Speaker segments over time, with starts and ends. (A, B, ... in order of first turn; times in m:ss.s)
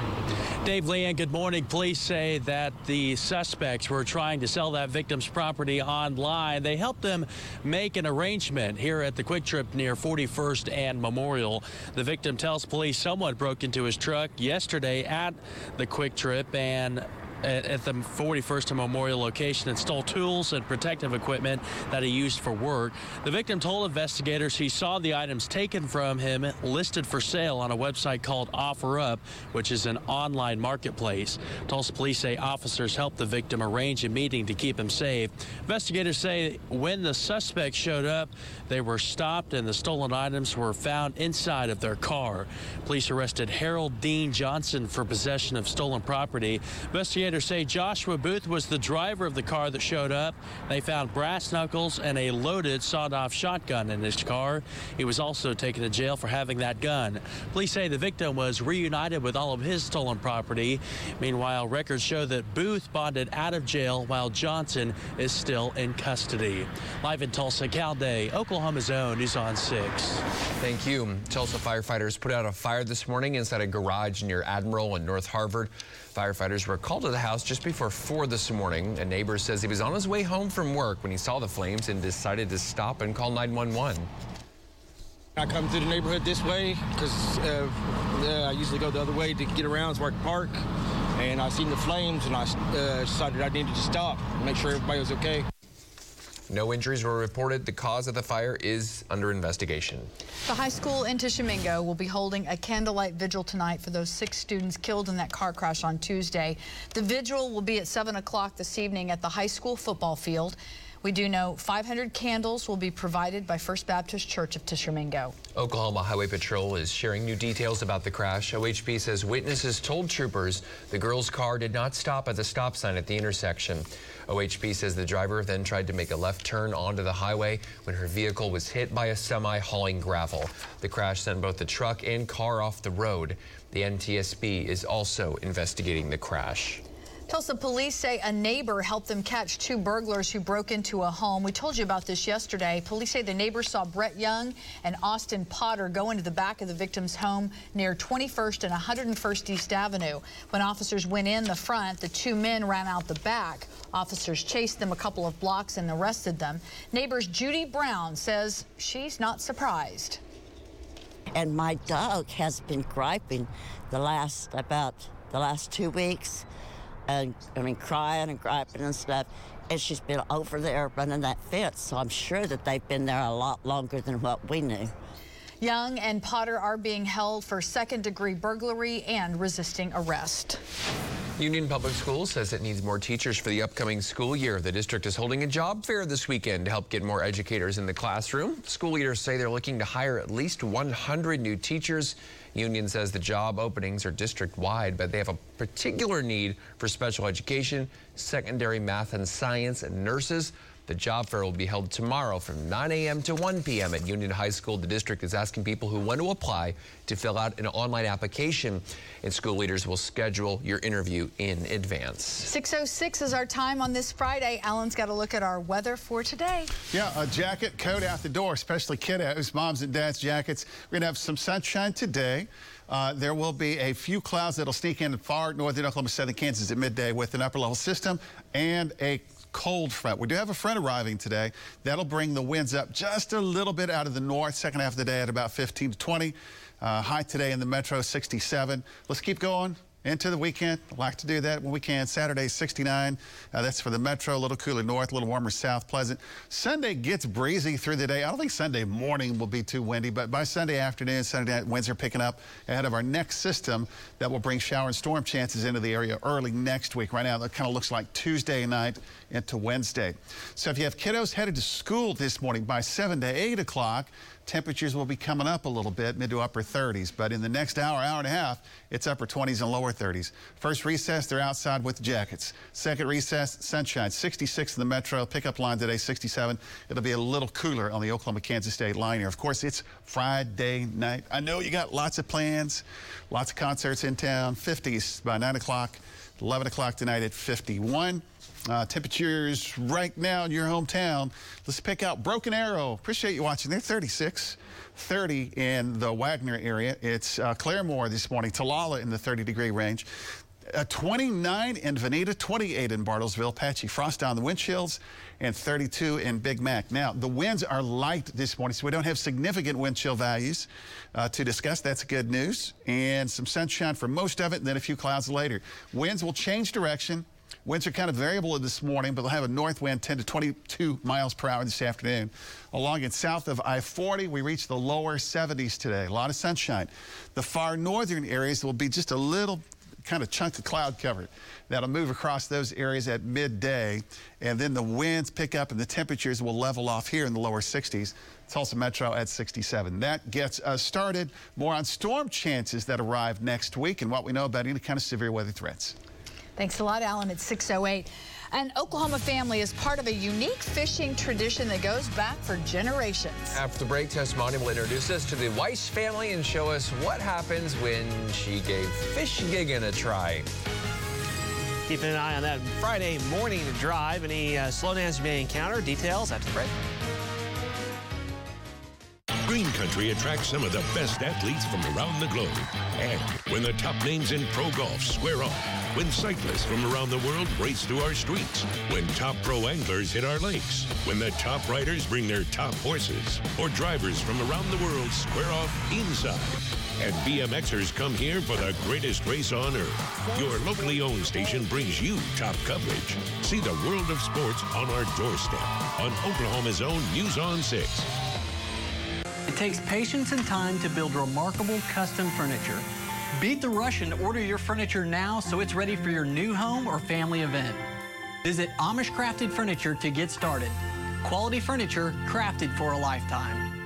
0:00.6-1:10.2 A
1:10.6-1:24.1 B
1:25.4-1:30.6 C
1:31.2-1:35.4 C
1:36.5-1:40.1 B
1:40.4-1:55.3 D
1:55.5-2:16.8 B
2:17.3-2:40.2 D
2:41.3-2:46.4 E
2:47.1-2:54.9 E
2:55.6-3:00.6 D
3:01.4-3:32.5 B
3:32.4-3:36.7 D
3:36.9-5:00.1 F
5:00.7-5:46.0 F
5:46.6-5:53.6 D
5:53.5-6:00.5 B
6:01.9-6:06.7 G
6:09.4-6:38.1 H
6:39.5-6:42.8 I
6:43.4-6:47.8 I
6:48.4-6:53.7 I